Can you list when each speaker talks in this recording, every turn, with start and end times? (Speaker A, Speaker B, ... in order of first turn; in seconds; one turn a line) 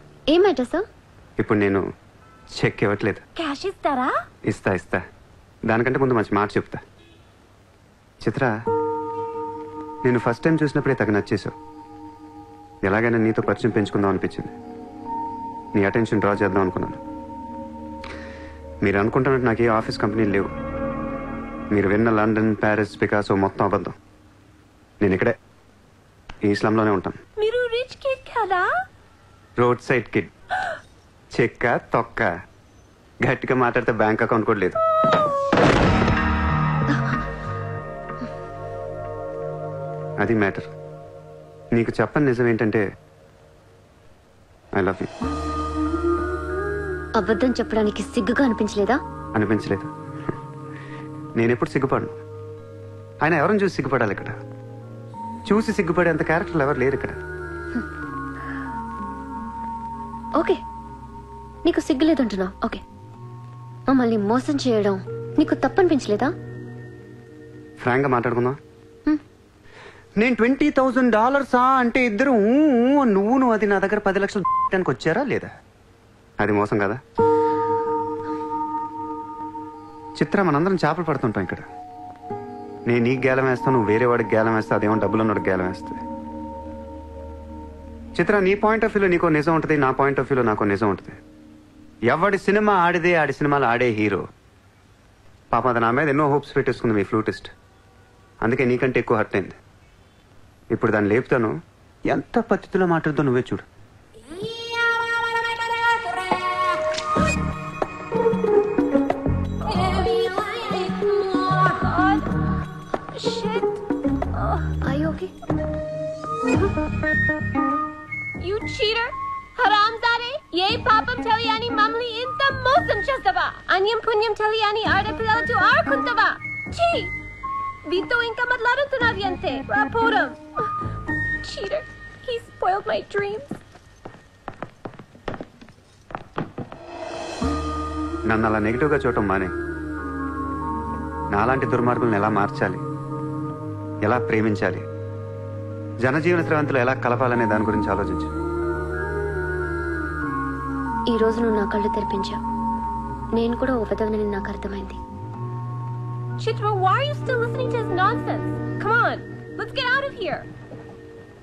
Speaker A: 0.3-0.8
Speaker B: 1.4-1.8
Speaker B: 2.6-3.2
Speaker C: 3.4-4.1
Speaker B: 4.5-5.0
Speaker B: 5.7-6.8
Speaker B: 8.2-8.5
Speaker B: 10.0-11.5
Speaker B: 12.9-14.5
Speaker B: 15.8-17.0
Speaker B: 18.8-20.5
Speaker B: 21.7-23.9
Speaker B: 25.0-25.3
Speaker B: 26.4-27.2
Speaker C: 27.4-28.7
Speaker B: 29.6-30.3
Speaker B: 31.3-32.3
Speaker B: 33.2-34.8
Speaker B: 40.2-40.7
Speaker B: 41.7-42.8
Speaker B: 44.8-45.1
Speaker A: 47.2-49.0
Speaker B: 49.4-49.9
Speaker B: 51.4-52.1
Speaker B: 53.2-54.4
Speaker B: 55.5-57.2
Speaker A: 61.6-62.8
Speaker A: 63.9-66.3
Speaker B: 67.8-68.6
Speaker B: 70.2-75.5
Speaker B: 76.4-77.0
Speaker B: 80.2-81.6
Speaker B: 82.9-86.0
Speaker B: 88.2-91.2
Speaker B: 92.1-94.2
Speaker B: 95.5-97.5
Speaker B: 98.4-99.6
Speaker B: 100.7-101.5
Speaker B: 102.1-103.6
Speaker C: 109.6-112.3
Speaker C: 113.1-113.8
Speaker C: 114.3-114.7
Speaker A: 114.8-115.3
Speaker C: 118.4-127.1
Speaker C: 127.9-130.7
Speaker C: 131.4-133.6
Speaker B: 138.3-139.5
Speaker B: 141.3-142.8
Speaker B: 144.0-144.8
Speaker B: 146.0-148.3
Speaker A: 151.1-152.4
Speaker A: 153.4-155.0
Speaker C: 156.4-160.5